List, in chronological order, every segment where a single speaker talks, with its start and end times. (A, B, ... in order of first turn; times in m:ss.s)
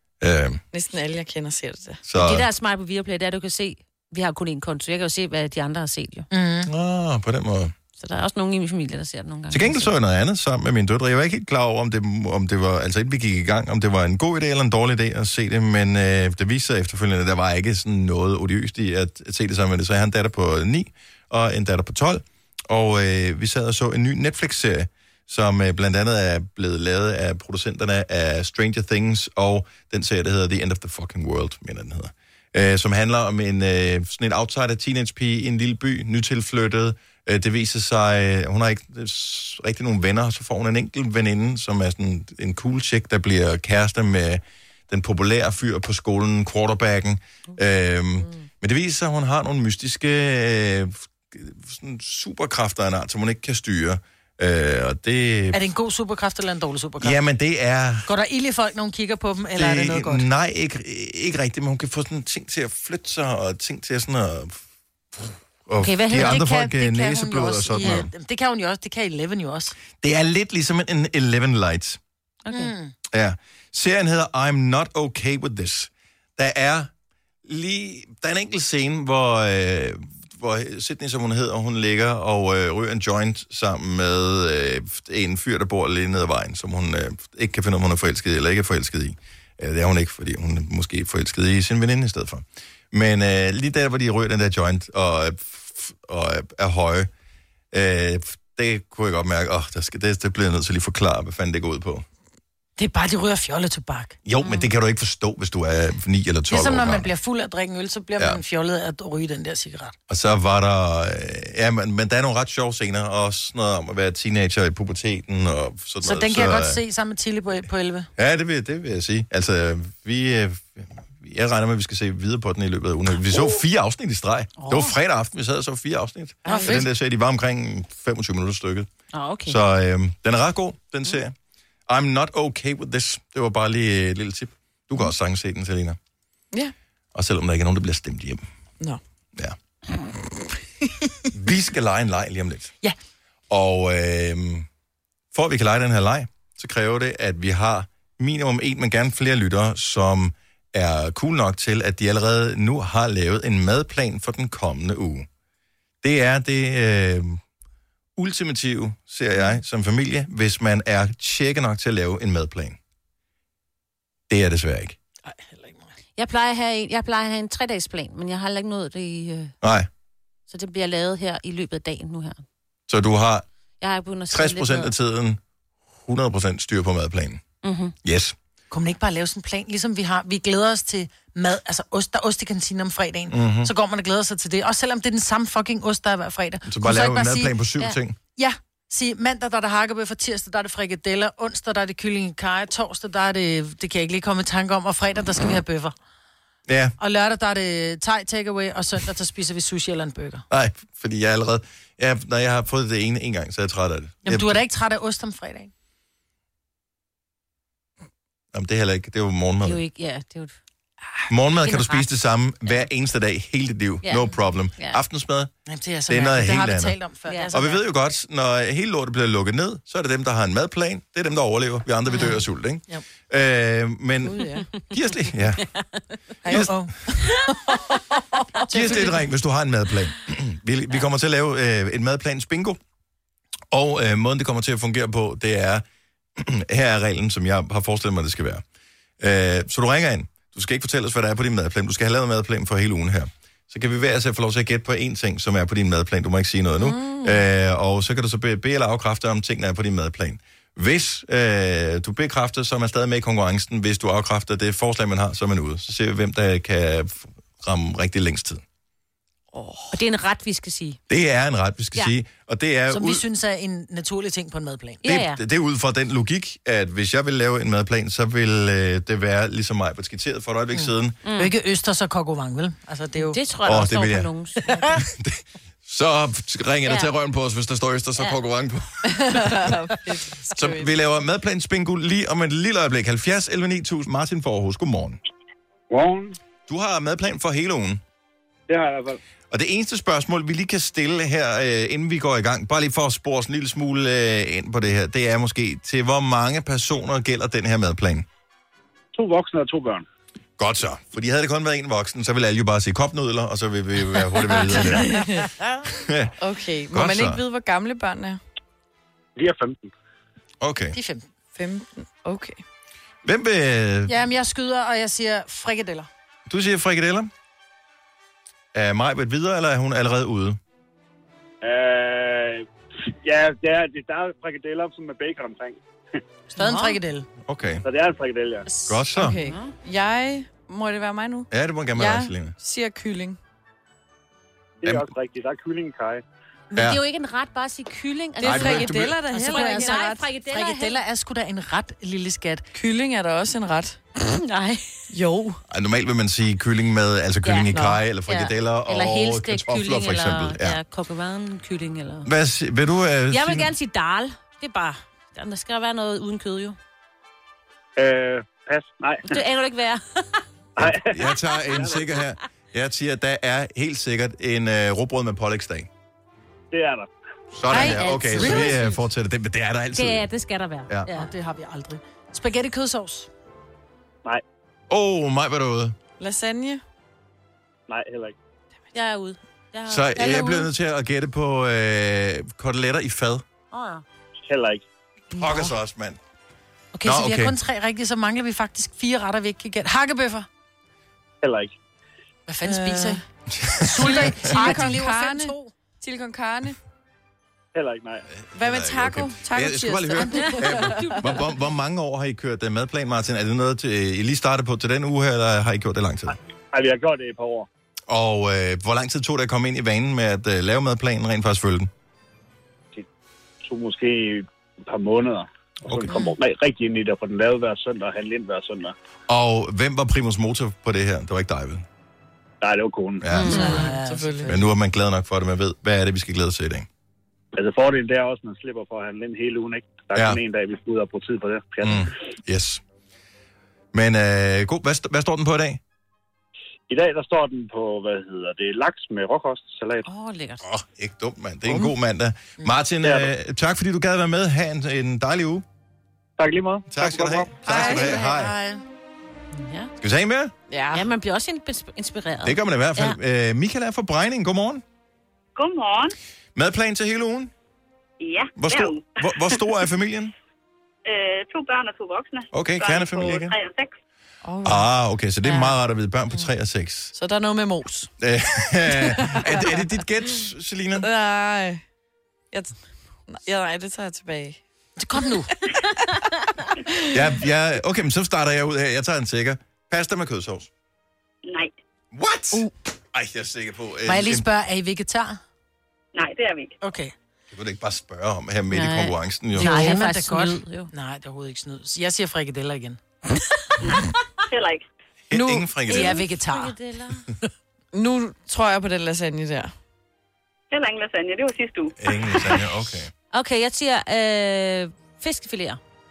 0:00.2-0:00.6 A
0:00.7-0:02.0 B
0:02.0-0:02.5 A
0:02.1-0:06.3 C
0:06.3-0:06.7 D
0:06.6-0:07.7 A
0:08.0-0:09.9 C
0:09.5-0:55.6 A
0:55.5-0:57.2 D
0:57.0-0:58.1 A
0:58.0-1:00.3 D
0:59.6-1:04.6 A
1:05.1-1:08.1 A
1:05.8-1:06.4 C
1:06.1-1:09.8 D
1:07.8-1:08.0 C
1:10.0-1:12.0 A
1:12.4-1:12.7 C
1:12.5-1:12.9 D
1:13.1-1:16.9 A
1:17.4-1:37.1 A
1:37.7-1:42.0 A
1:42.8-1:44.2 D
1:44.2-1:47.1 A
1:44.4-1:44.7 C
1:46.5-1:50.0 D
1:50.1-1:56.8 A
1:56.0-1:58.1 D
1:58.2-2:08.9 A
2:06.4-2:06.8 B
2:06.4-2:06.8 D
2:09.1-2:09.6 C
2:09.4-2:11.3 A
2:11.9-2:16.0 A
2:17.1-2:18.4 A
2:21.3-2:22.7 A
2:23.5-2:24.7 A
2:25.3-2:35.3 A
2:36.0-2:37.4 A
2:38.2-2:42.8 A
2:44.3-2:45.0 A
2:45.2-2:45.9 D
2:46.2-2:49.5 C
2:49.6-2:49.9 A
2:50.5-2:52.4 C
2:52.9-2:53.4 A
2:53.8-2:54.9 C
2:54.3-2:55.4 A
2:56.0-2:57.4 A
2:57.6-2:57.9 C
2:58.0-2:58.4 A
2:58.7-3:07.6 D
3:03.3-3:03.7 A
3:06.6-3:08.2 A
3:08.4-3:15.9 D
3:16.7-3:16.9 A
3:17.0-3:20.4 D
3:20.5-3:24.6 A
3:24.2-3:25.7 D
3:28.5-3:29.8 A
3:29.6-3:30.5 C
3:31.3-3:35.5 A
3:31.6-3:32.0 C
3:34.0-3:35.0 C
3:35.7-3:37.8 D
3:36.1-3:37.0 A
3:37.5-3:45.6 A
3:44.2-3:44.7 B
3:46.4-3:46.7 B
3:46.4-3:46.7 A
3:46.5-3:49.1 D
3:48.7-3:52.8 A
3:53.7-3:55.8 A
3:56.4-3:58.6 A
3:59.2-4:18.6 A
4:19.5-4:20.0 B
4:19.9-4:21.0 C
4:21.1-4:23.2 A
4:22.9-4:25.0 D
4:25.0-4:25.4 C
4:25.0-4:31.2 A
4:30.7-4:33.4 D
4:31.2-4:31.5 C
4:33.2-4:34.8 C
4:33.6-4:34.3 A
4:35.0-4:39.7 A
4:39.0-4:40.9 B
4:40.6-4:45.2 A
4:45.9-4:46.3 E
4:46.7-4:48.0 A
4:48.7-4:49.2 E
4:49.5-4:58.3 A
4:59.1-5:00.0 E
5:00.6-5:05.3 A
5:04.9-5:05.5 B
5:05.8-5:06.3 A
5:06.4-5:08.4 B
5:06.9-5:07.4 A
5:09.4-5:09.9 E
5:10.6-5:11.0 A
5:10.9-5:11.3 D
5:11.5-5:12.6 B
5:13.2-5:14.2 A
5:14.1-5:16.1 D
5:16.5-5:17.3 A
5:18.7-5:20.6 A
5:21.6-5:25.8 E
5:26.5-5:27.3 D
5:26.6-5:27.0 C
5:27.4-5:27.8 A
5:27.8-5:28.7 E
5:28.7-5:29.7 C
5:28.8-5:29.4 A
5:29.2-5:33.4 B
5:31.5-5:32.5 A
5:34.8-5:36.2 E
5:34.8-5:35.1 A
5:36.7-5:41.0 C
5:36.7-5:37.0 A
5:38.4-5:40.1 B
5:38.4-5:39.2 A
5:39.3-5:42.6 D
5:42.7-5:44.0 B
5:44.2-5:44.9 C
5:45.1-5:45.6 B
5:45.7-5:50.8 A
5:47.4-5:52.3 C
5:47.7-5:48.0 B
5:52.2-5:53.7 A
5:53.3-5:56.8 C
5:58.0-5:59.4 E
5:59.2-6:00.4 C
6:00.8-6:02.2 E
6:00.8-6:05.9 A
6:06.7-6:07.1 E
6:07.5-6:10.3 A
6:07.7-6:08.9 D
6:07.7-6:08.8 C
6:09.9-6:11.3 C
6:11.1-6:13.3 D
6:14.9-6:16.0 A
6:16.2-6:16.8 B
6:17.9-6:18.3 E
6:18.9-6:20.7 C
6:19.8-6:23.4 A
6:23.7-6:24.0 C
6:24.4-6:24.8 E
6:25.3-6:26.2 A
6:26.9-6:30.5 D
6:27.0-6:27.5 A
6:31.4-6:31.7 E
6:32.5-6:33.2 D
6:32.6-6:33.2 B
6:33.5-6:34.5 A
6:33.8-6:35.7 D
6:34.0-6:36.8 B
6:37.7-6:38.2 E
6:38.3-6:46.4 A
6:38.5-6:41.0 B
6:40.3-6:41.4 C
6:46.7-6:47.7 E
6:48.1-6:51.9 A
6:53.6-6:58.9 E
6:55.8-6:56.2 A
6:59.3-7:01.8 A
7:02.6-7:03.3 E
7:03.2-7:03.8 A
7:03.3-7:03.9 C
7:03.5-7:04.6 B
7:03.5-7:04.5 D
7:04.4-7:06.9 A
7:07.5-7:12.1 E
7:10.1-7:10.4 A
7:11.8-7:12.8 A
7:13.9-7:15.8 A
7:16.9-7:20.1 E
7:20.0-7:20.6 C
7:20.6-7:25.6 A
7:23.0-7:23.3 E
7:26.4-7:27.9 E
7:26.9-7:28.5 A
7:27.6-7:28.1 B
7:27.7-7:28.8 D
7:29.5-7:29.9 C
7:30.0-7:30.5 A
7:30.7-7:31.1 B
7:30.9-7:33.2 C
7:32.4-7:34.8 A
7:35.6-7:36.1 F
7:36.6-7:37.5 A
7:38.2-7:39.6 F
7:38.6-7:40.3 A
7:41.0-7:44.0 F
7:42.5-7:43.5 A
7:44.4-7:44.9 B
7:44.6-7:47.1 A
7:47.1-7:48.1 B
7:48.2-7:51.1 A
7:48.9-7:49.8 B
7:51.0-7:51.8 B
7:52.5-7:54.6 B
7:55.0-7:55.5 D
7:57.1-8:00.7 A
8:01.4-8:01.8 F
8:02.1-8:04.5 A
8:04.0-8:05.4 D
8:06.1-8:06.8 F
8:06.8-8:07.1 D
8:07.5-8:09.9 A
8:08.7-8:10.9 C
8:09.6-8:13.0 D
8:13.8-8:14.8 F
8:15.3-8:16.2 A
8:15.3-8:15.7 B
8:15.9-8:17.3 C
8:15.9-8:16.7 D
8:17.9-8:19.7 B
8:20.7-8:22.0 F
8:22.0-8:23.1 A
8:23.3-8:25.8 C